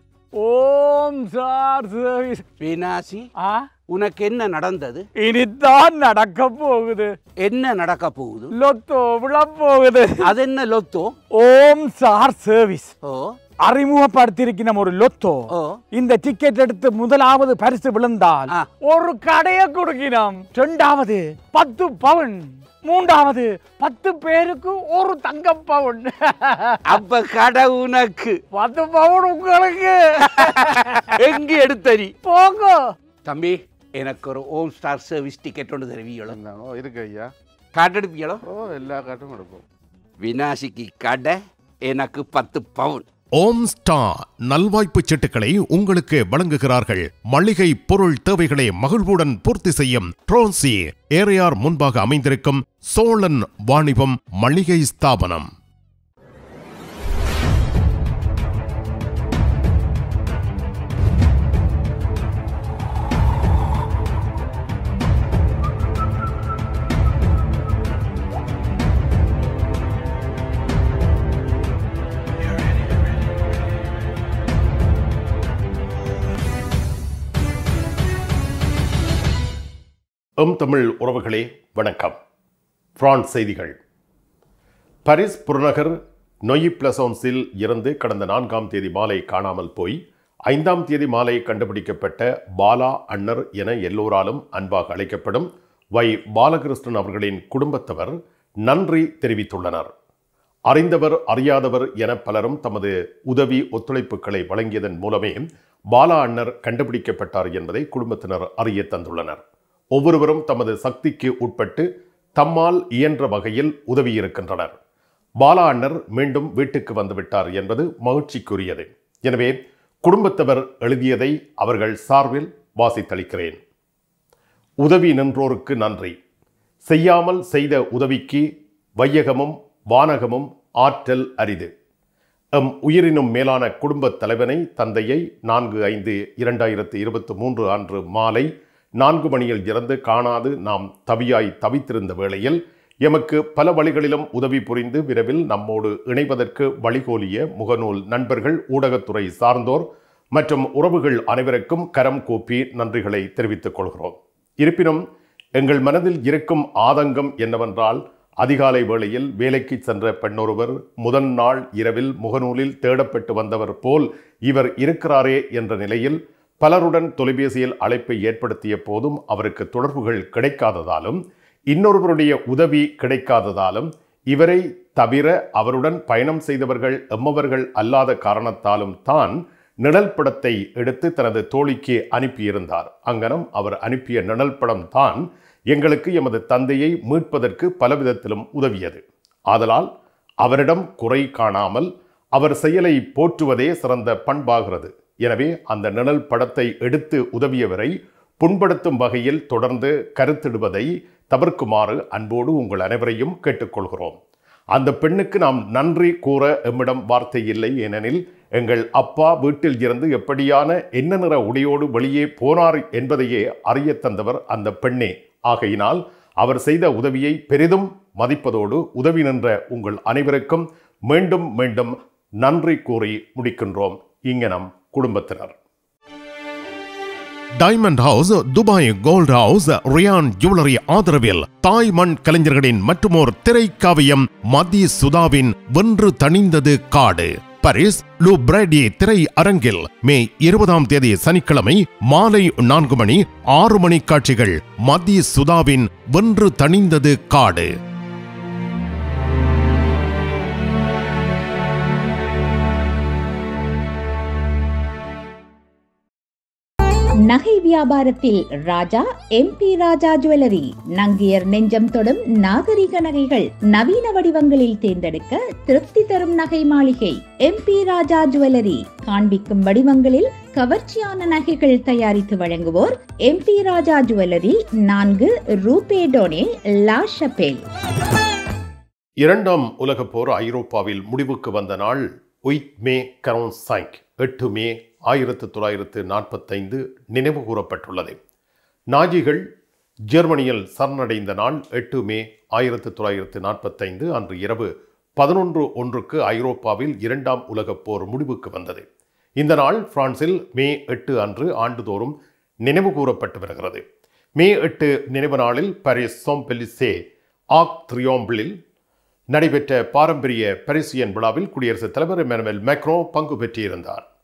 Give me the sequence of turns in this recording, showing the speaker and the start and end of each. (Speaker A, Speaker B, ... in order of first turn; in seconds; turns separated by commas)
Speaker A: 0.4-2.4, Speaker B: 2.6-3.2, Speaker A: 3.4-3.7, Speaker B: 3.9-5.0, Speaker A: 5.2-7.2, Speaker B: 7.4-8.5, Speaker A: 8.5-10.3, Speaker B: 10.3-11.1, Speaker A: 11.3-12.9, Speaker A: 13.6-26.8, Speaker B: 26.9-28.4, Speaker A: 28.5-30.8, Speaker B: 31.2-32.1, Speaker A: 32.2-32.9, Speaker B: 33.2-36.3, Speaker C: 36.3-37.3, Speaker B: 37.8-38.4, Speaker C: 38.4-39.6, Speaker B: 40.2-43.0, Speaker D: 43.4-55.5, Speaker D: 80.4-82.2, Speaker D: 83.0-83.8, Speaker D: 85.1-99.9, Speaker D: 100.7-109.4, Speaker D: 109.9-111.9, Speaker D: 112.4-114.8, Speaker D: 115.4-123.6, Speaker D: 124.8-126.2, Speaker D: 126.9-131.7, Speaker D: 132.5-155.0, Speaker D: 155.6-189.9, Speaker D: 190.4-204.2, Speaker D: 204.7-225.6, Speaker D: 227.6-247.7, Speaker E: 257.3-277.6, Speaker D: 279.2-288.2, Speaker D: 288.9-289.4, Speaker D: 290.1-298.9, Speaker D: 299.4-303.8, Speaker D: 304.4-307.0, Speaker D: 307.5-308.5, Speaker D: 309.3-314.1